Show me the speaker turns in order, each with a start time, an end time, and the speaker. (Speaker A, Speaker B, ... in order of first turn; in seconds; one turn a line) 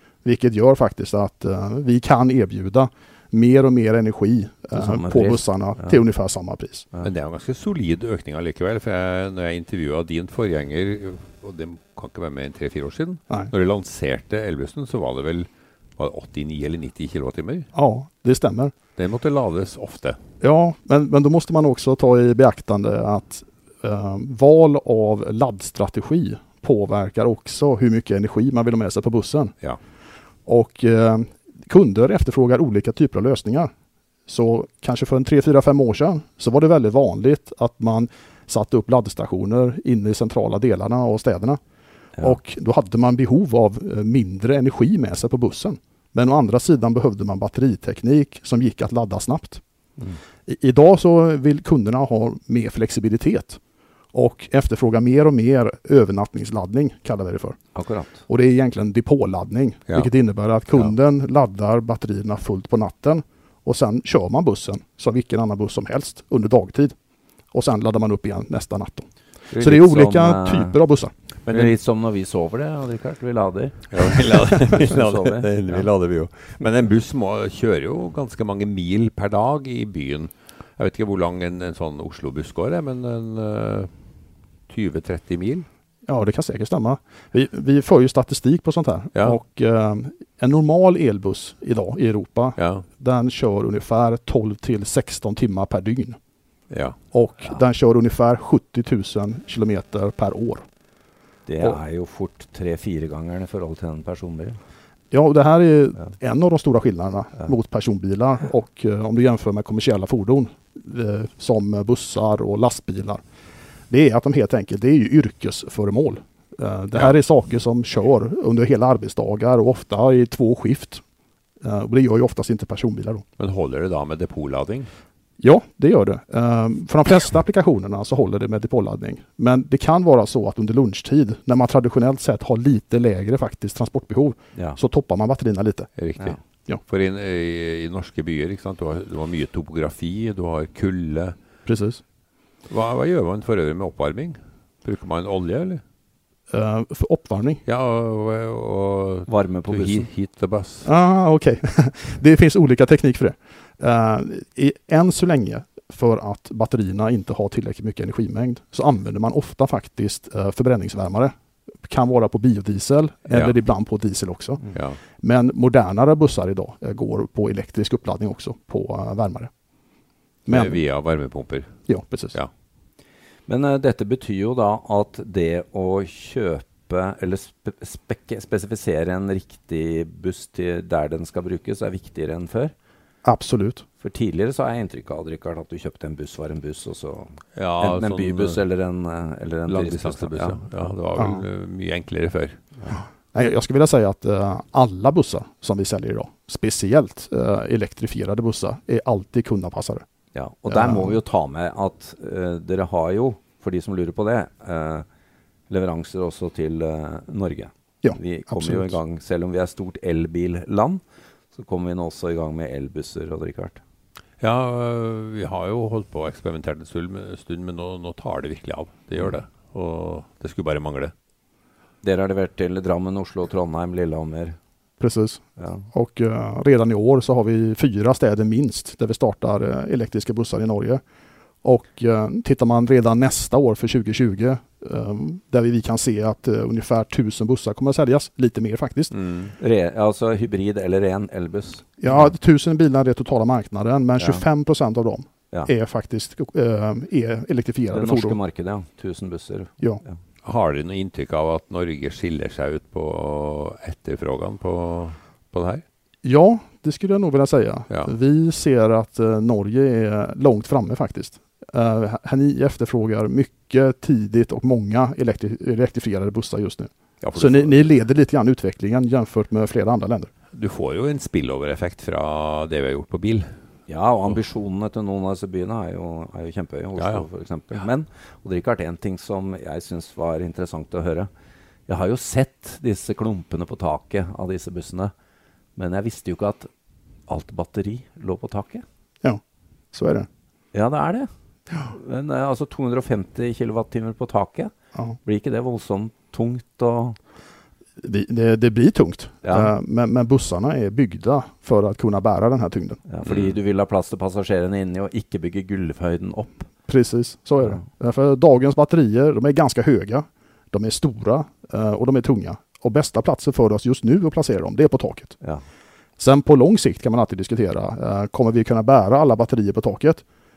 Speaker A: 0.2-6.9
Speaker B: 4.8-6.0
Speaker C: 7.0-17.6
Speaker A: 17.7-18.7
Speaker C: 19.0-20.2
Speaker A: 20.4-29.6
Speaker A: 30.5-33.7
Speaker A: 34.3-41.6
Speaker A: 42.2-49.6
Speaker A: 50.5-53.6
Speaker A: 54.1-57.6
Speaker B: 57.8-58.2
Speaker A: 58.3-66.9
Speaker A: 67.5-71.1
Speaker B: 69.5-70.8
Speaker C: 71.5-71.7
Speaker B: 71.5-75.9
Speaker C: 73.9-83.9
Speaker C: 84.7-85.7
Speaker A: 86.1-96.2
Speaker C: 92.6-92.8
Speaker C: 96.7-97.0
Speaker A: 97.1-100.6
Speaker B: 101.5-104.6
Speaker A: 105.1-113.2
Speaker A: 113.9-121.0
Speaker A: 121.6-123.2
Speaker C: 123.4-124.9
Speaker A: 125.4-135.9
Speaker C: 136.0-136.4
Speaker C: 136.9-141.4
Speaker A: 141.7-142.0
Speaker C: 142.7-145.8
Speaker A: 146.5-147.6
Speaker C: 147.7-150.8
Speaker B: 149.3-150.1
Speaker A: 150.8-161.3
Speaker A: 161.9-169.5
Speaker C: 164.7-165.0
Speaker A: 170.5-170.8
Speaker C: 170.5-171.7
Speaker A: 171.9-172.4
Speaker B: 173.5-182.7
Speaker A: 183.2-183.8
Speaker B: 184.0-190.9
Speaker C: 187.6-188.6
Speaker C: 189.7-192.6
Speaker A: 191.2-191.4
Speaker A: 192.9-200.0
Speaker B: 200.3-205.1
Speaker A: 200.7-201.2
Speaker B: 205.7-211.0
Speaker A: 208.0-209.0
Speaker B: 211.5-213.8
Speaker C: 214.4-221.1
Speaker B: 222.0-224.6
Speaker A: 225.0-225.4
Speaker B: 225.6-225.9
Speaker A: 225.9-231.0
Speaker A: 231.6-239.2
Speaker C: 239.1-239.5
Speaker B: 239.6-242.2
Speaker A: 242.0-248.4
Speaker B: 244.2-244.4
Speaker B: 247.9-250.2
Speaker C: 250.4-255.8
Speaker A: 256.2-270.3
Speaker C: 267.2-267.9
Speaker C: 270.5-273.5
Speaker B: 273.9-281.3
Speaker C: 277.0-277.2
Speaker B: 281.9-285.1
Speaker B: 285.8-286.7
Speaker B: 287.3-288.8
Speaker A: 289.9-290.3
Speaker B: 290.7-294.7
Speaker B: 295.2-297.2
Speaker A: 298.0-303.0
Speaker B: 299.4-299.7
Speaker B: 303.1-306.7
Speaker C: 303.2-303.6
Speaker A: 306.9-315.4
Speaker A: 316.2-320.2